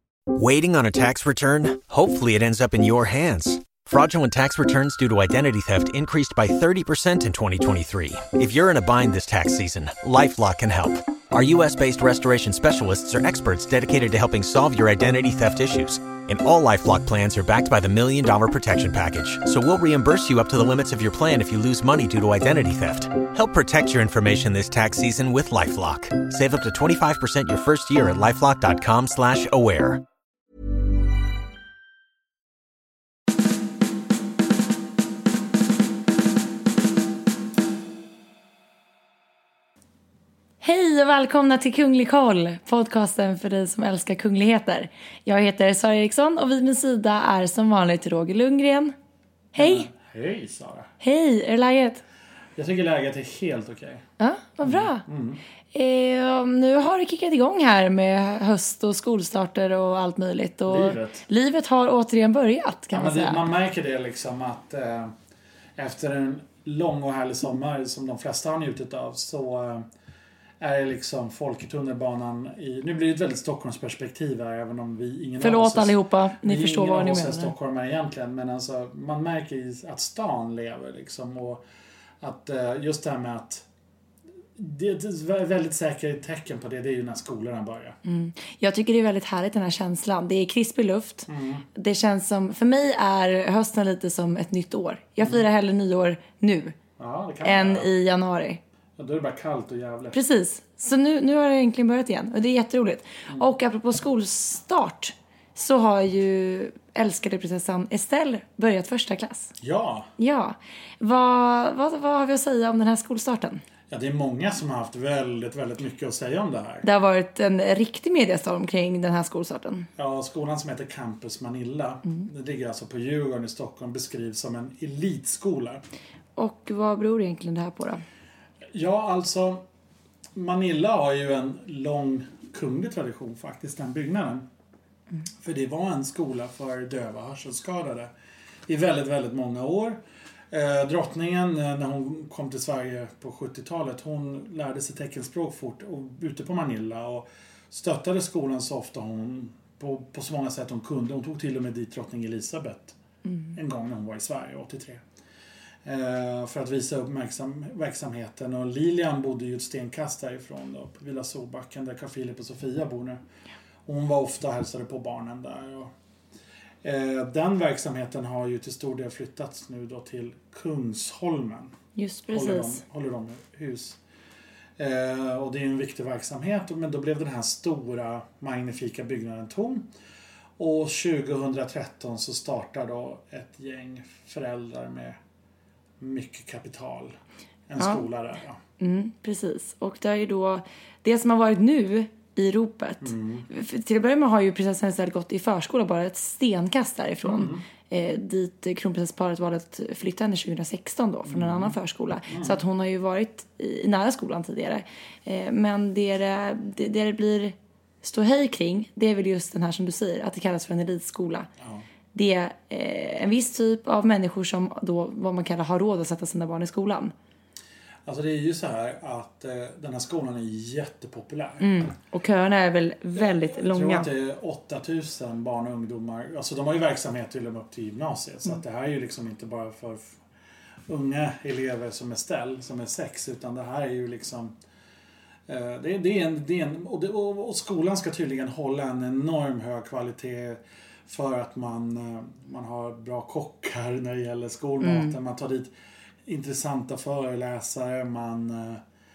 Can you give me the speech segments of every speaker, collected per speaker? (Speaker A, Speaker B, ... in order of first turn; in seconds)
Speaker A: 0.3-30.0
Speaker B: 40.6-48.9, 49.5-49.9, 51.0-52.0, 54.2-55.0, 55.7-63.5, 75.4-77.5, 88.0-96.7, 97.4-98.6, 100.1-109.5, 110.2-113.6, 116.8-119.9, 126.3-128.0, 153.2-153.6, 171.9-172.8, 187.8-188.0, 188.8-211.5, 212.1-217.1, 221.6-224.1, 244.8-245.1
Speaker C: 49.5-50.9, 52.5-54.0, 54.6-55.4, 60.7-61.2, 62.9-65.1, 65.8-69.8, 70.6-81.6, 82.2-83.7, 84.5-88.0, 91.3-91.6, 97.0-97.9, 99.0-100.2, 109.6-110.1, 113.9-116.8, 120.0-125.8, 128.7-129.6, 130.3-134.4, 135.4-138.1, 138.7-152.9, 153.5-155.0, 155.8-163.2, 163.8-165.9, 166.8-171.7, 172.3-174.0, 174.8-179.9, 180.6-185.2, 186.0-187.1, 187.7-188.6, 193.0-193.5, 197.2-197.6, 201.3-201.8, 202.3-202.6, 211.6-211.8, 218.1-221.9, 223.2-230.2, 230.9-234.6, 235.5-245.7, 246.2-248.8